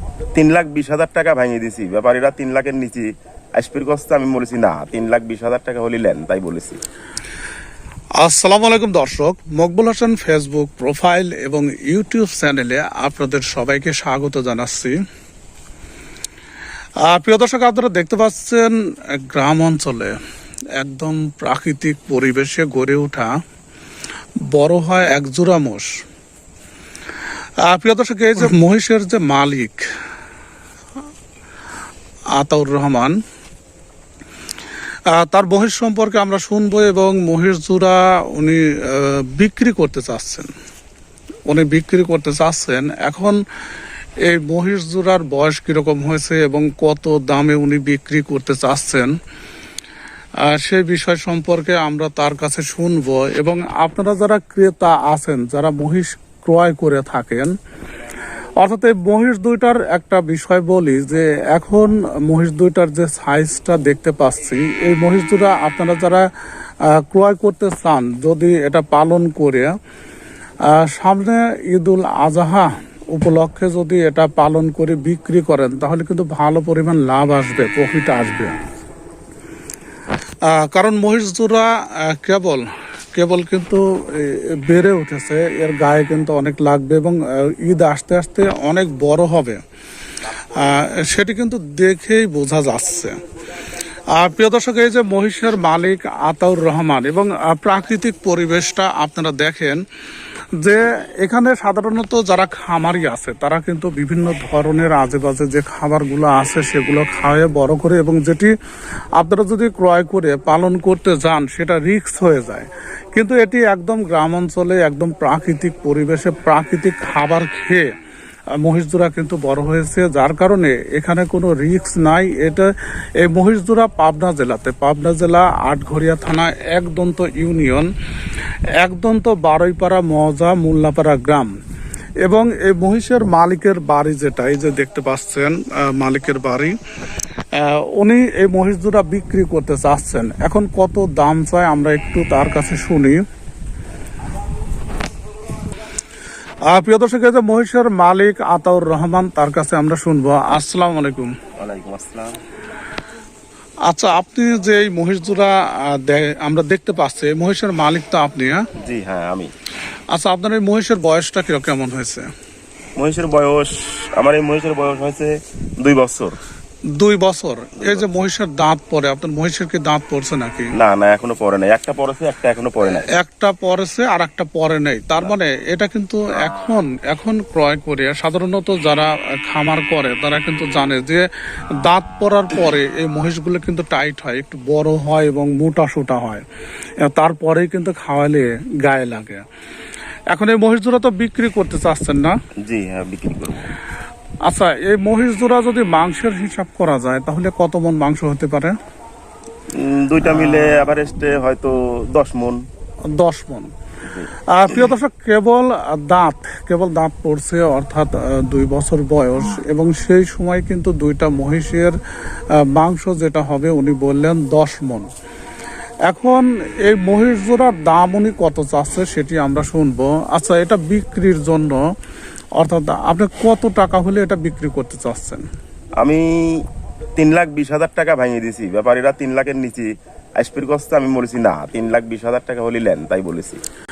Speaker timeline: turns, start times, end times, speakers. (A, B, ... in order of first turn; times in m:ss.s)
0:00.3-0:06.8 A
0:08.2-0:15.0 B
0:17.0-0:20.2 B
0:20.8-0:23.3 B
0:24.4-0:26.0 B
0:27.6-0:29.8 B
0:32.3-0:33.1 B
0:35.1-0:40.5 B
0:41.5-0:43.4 B
0:44.2-0:49.1 B
0:50.4-0:57.5 B
0:58.6-1:06.3 B
1:06.8-1:09.7 B
1:10.7-1:18.6 B
1:20.5-1:29.6 B
1:30.5-1:33.2 B
1:34.1-1:39.8 B
1:40.6-1:48.5 B
1:49.2-1:57.9 B
1:58.6-2:07.9 B
2:08.8-2:11.5 B
2:12.2-2:16.8 B
2:17.5-2:23.2 B
2:26.7-2:31.3 B
2:31.6-2:32.4 A
2:33.9-2:38.6 B
2:38.8-2:39.5 A
2:40.1-2:42.3 B
2:43.0-2:46.4 A
2:47.0-2:50.7 B
2:50.8-2:53.1 A
2:53.1-3:06.4 B
3:07.0-3:09.4 B
3:10.3-3:12.3 B
3:12.6-3:13.7 A
3:14.5-3:18.7 B
3:19.7-3:22.6 A
3:23.2-3:23.7 B
3:24.5-3:31.9 B
3:32.6-3:35.1 B
3:36.1-3:41.8 B
3:42.6-3:45.4 B
3:46.0-3:46.6 A
3:47.2-3:53.6 A